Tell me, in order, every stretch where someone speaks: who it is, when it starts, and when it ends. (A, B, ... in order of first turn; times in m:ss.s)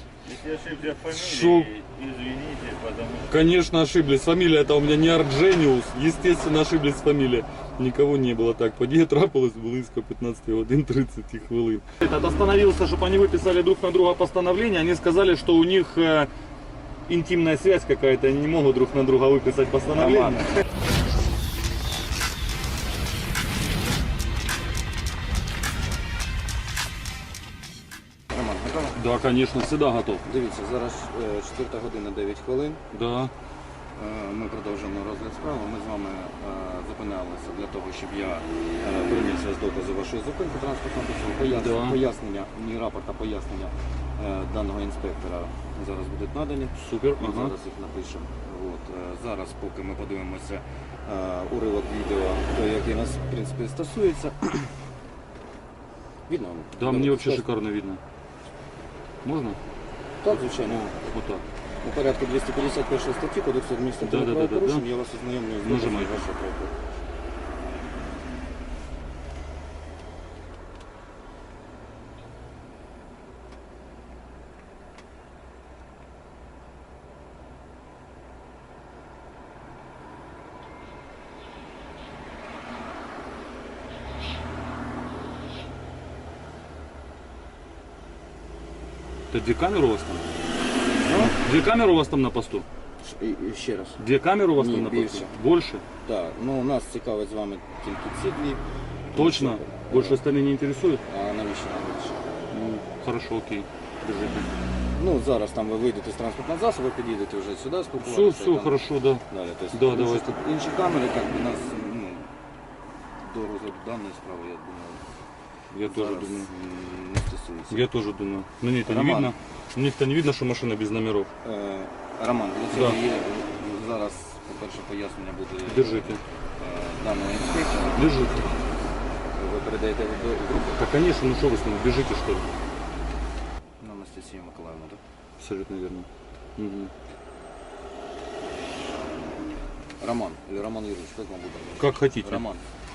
0:00.2-0:03.3 A
0:01.1-0:01.7 B
0:03.3-0:16.3 B
0:17.1-0:20.4 B
0:20.0-0:20.5 A
0:28.3-0:29.0 A
0:29.0-0:30.2 B
0:30.2-0:32.8 A
0:32.9-0:33.3 B
0:34.0-0:54.7 A
0:41.5-0:42.0 B
0:46.8-0:47.5 B
0:56.3-0:57.5 A
0:56.8-0:58.0 B
0:59.2-0:59.6 B
1:00.2-1:00.9 A
1:00.3-1:01.4 B
1:01.8-1:06.7 A
1:04.0-1:04.8 B
1:05.6-1:06.2 B
1:29.3-1:30.3 B
1:31.0-1:31.4 A
1:31.2-1:32.6 B
1:33.0-1:35.3 A
1:34.0-1:35.8 B
1:36.0-1:40.2 A
1:39.2-1:41.0 B
1:41.1-1:42.4 A
1:42.5-1:44.5 B
1:45.0-1:52.3 A
1:48.0-1:50.3 B
1:53.2-1:55.0 A
1:55.7-1:56.5 B
1:55.8-1:57.8 A
1:57.7-2:01.3 B
1:58.8-1:59.4 A
2:01.4-2:08.1 A
2:02.7-2:03.0 B
2:05.7-2:06.2 B
2:08.0-2:08.5 B
2:09.3-2:10.8 A
2:10.8-2:12.5 B
2:13.8-2:15.0 A
2:15.4-2:16.9 B
2:20.0-2:22.7 A
2:21.8-2:22.4 B